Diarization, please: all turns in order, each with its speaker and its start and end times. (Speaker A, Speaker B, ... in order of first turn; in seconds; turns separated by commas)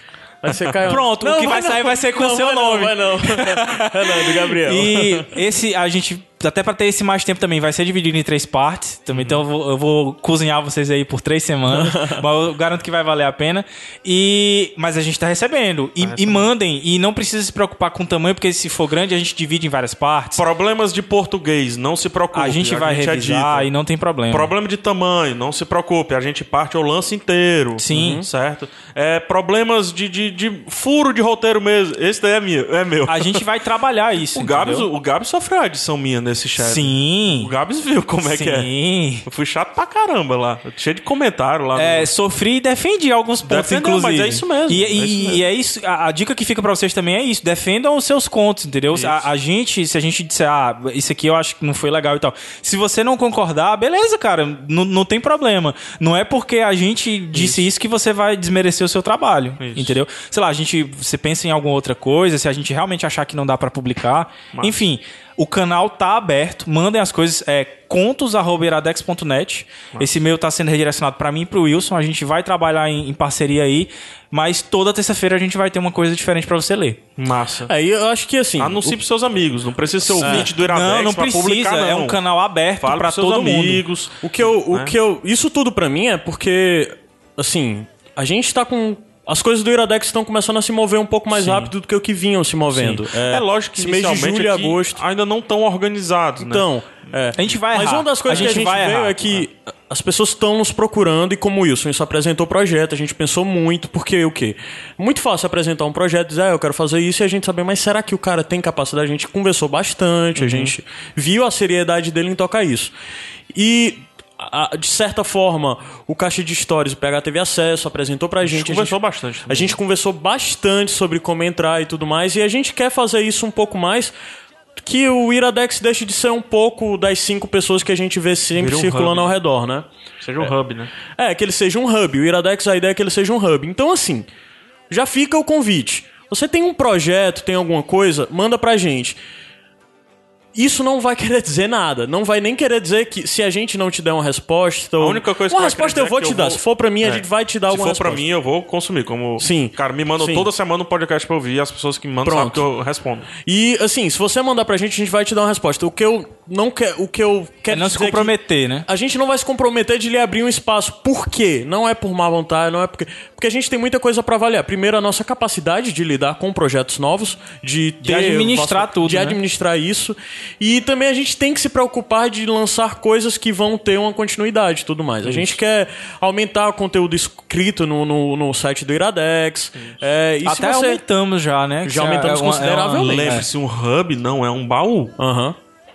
Speaker A: 0.4-5.4, Speaker B: 0.9-20.4, Speaker C: 9.1-9.4, Speaker A: 11.7-12.2, Speaker C: 16.0-16.5, Speaker C: 20.4-23.7, Speaker B: 22.3-24.5, Speaker C: 24.3-33.4, Speaker B: 27.8-28.2, Speaker A: 27.9-28.3, Speaker B: 33.1-34.9, Speaker C: 34.3-38.7, Speaker B: 36.6-37.5, Speaker B: 38.2-39.2, Speaker C: 39.2-42.1, Speaker B: 41.8-77.0, Speaker C: 43.4-45.4, Speaker C: 48.9-49.3, Speaker C: 57.3-57.6, Speaker C: 59.6-60.0, Speaker C: 77.2-77.7, Speaker A: 77.7-79.0, Speaker C: 78.6-82.2, Speaker A: 80.2-80.5, Speaker B: 80.2-83.8, Speaker C: 82.8-85.0, Speaker A: 84.2-95.0, Speaker C: 91.3-91.7, Speaker C: 92.7-96.7, Speaker A: 96.4-112.9, Speaker B: 97.4-99.4, Speaker C: 110.4-110.8, Speaker A: 113.5-124.1, Speaker C: 118.4-119.8, Speaker A: 124.8-129.9, Speaker C: 128.6-129.3, Speaker C: 130.2-130.9, Speaker A: 131.1-134.3, Speaker A: 134.9-139.2, Speaker A: 140.6-148.2, Speaker C: 145.0-153.3, Speaker A: 149.4-150.5, Speaker A: 152.2-152.7, Speaker A: 153.4-158.3, Speaker B: 157.7-158.9, Speaker A: 158.9-181.0, Speaker B: 168.0-169.4, Speaker C: 175.2-175.6, Speaker B: 180.4-183.5, Speaker A: 181.8-183.4, Speaker C: 183.0-185.2, Speaker A: 185.2-185.6